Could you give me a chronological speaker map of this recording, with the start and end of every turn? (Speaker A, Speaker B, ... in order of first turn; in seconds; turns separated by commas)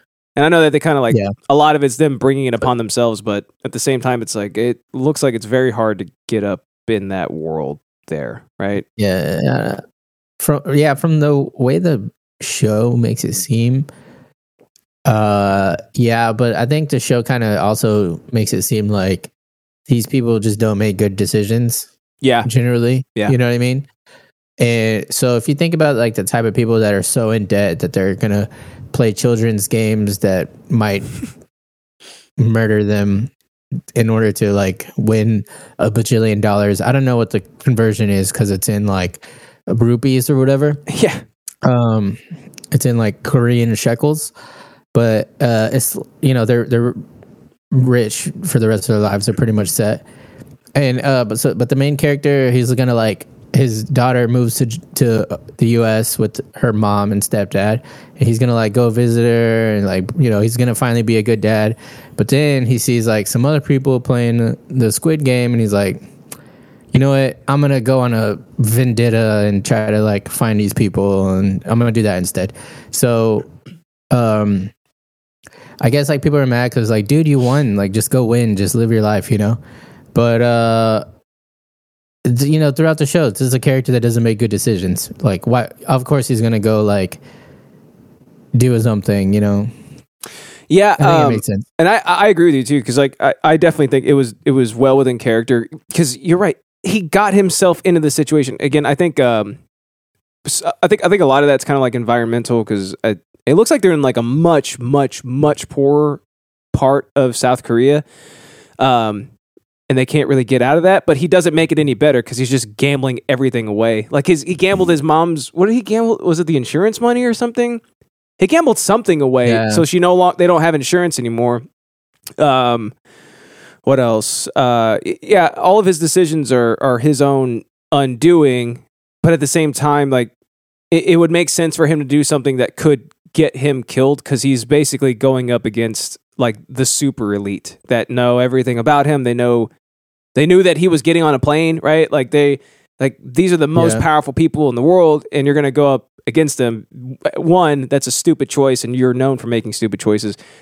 Speaker A: 0.3-8.8, Speaker B: 9.0-9.8, Speaker B: 10.4-13.9, Speaker B: 15.1-19.3, Speaker B: 19.9-21.9, Speaker A: 22.2-22.5, Speaker B: 22.4-23.9, Speaker B: 24.6-31.1, Speaker B: 32.4-33.3, Speaker B: 33.9-40.8, Speaker A: 40.9-41.2, Speaker B: 41.6-42.2, Speaker B: 42.7-44.3, Speaker B: 44.9-47.0, Speaker B: 47.7-50.0, Speaker B: 50.7-66.0, Speaker B: 66.9-73.5, Speaker B: 74.1-74.7, Speaker B: 75.8-79.6, Speaker B: 80.1-81.0, Speaker B: 82.2-87.2, Speaker B: 88.5-89.7, Speaker A: 90.7-99.6, Speaker B: 91.0-91.7, Speaker A: 100.4-106.2, Speaker A: 106.7-108.0, Speaker A: 108.8-109.3, Speaker A: 109.9-117.8, Speaker A: 118.4-121.6, Speaker B: 119.4-119.8, Speaker A: 122.4-122.9, Speaker A: 123.8-130.3, Speaker A: 130.9-139.7, Speaker A: 140.3-150.3, Speaker B: 143.7-144.0